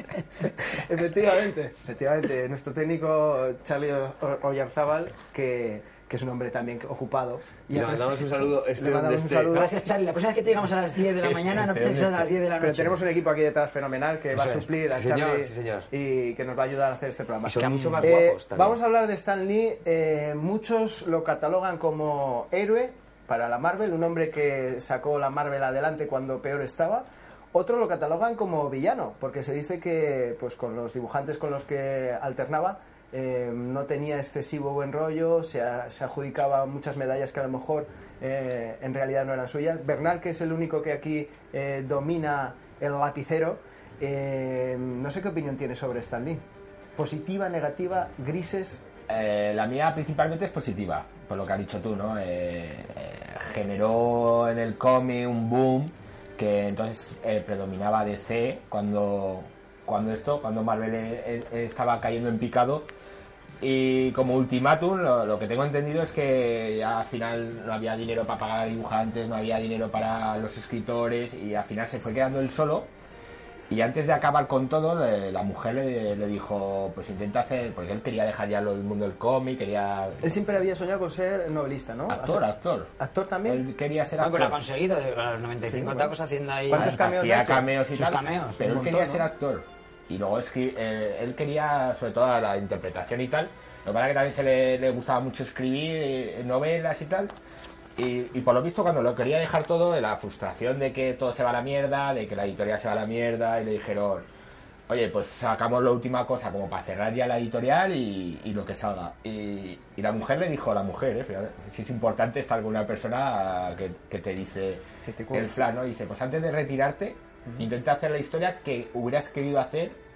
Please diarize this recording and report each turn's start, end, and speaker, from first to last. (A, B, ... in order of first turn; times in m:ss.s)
0:00.7-0:08.2 A
0:07.7-0:09.6 B
0:08.7-0:09.7 A
0:09.5-0:13.0 C
0:11.2-0:12.4 D
0:12.6-0:46.4 A
0:14.3-0:14.7 C
0:14.9-0:15.9 B
0:17.4-0:18.8 B
0:17.5-0:18.1 C
0:47.0-0:48.8 A
0:49.1-1:02.9 D
1:03.6-1:12.9 D
1:13.7-1:20.2 D
1:20.2-1:23.6 A
1:22.1-1:22.9 D
1:23.4-1:24.6 D
1:24.2-1:27.0 C
1:25.7-1:26.1 A
1:26.7-1:27.7 A
1:26.7-1:37.3 D
1:27.9-1:28.6 C
1:28.6-1:29.3 A
1:38.0-1:44.3 D
1:44.9-2:00.0 D
1:55.0-1:55.5 A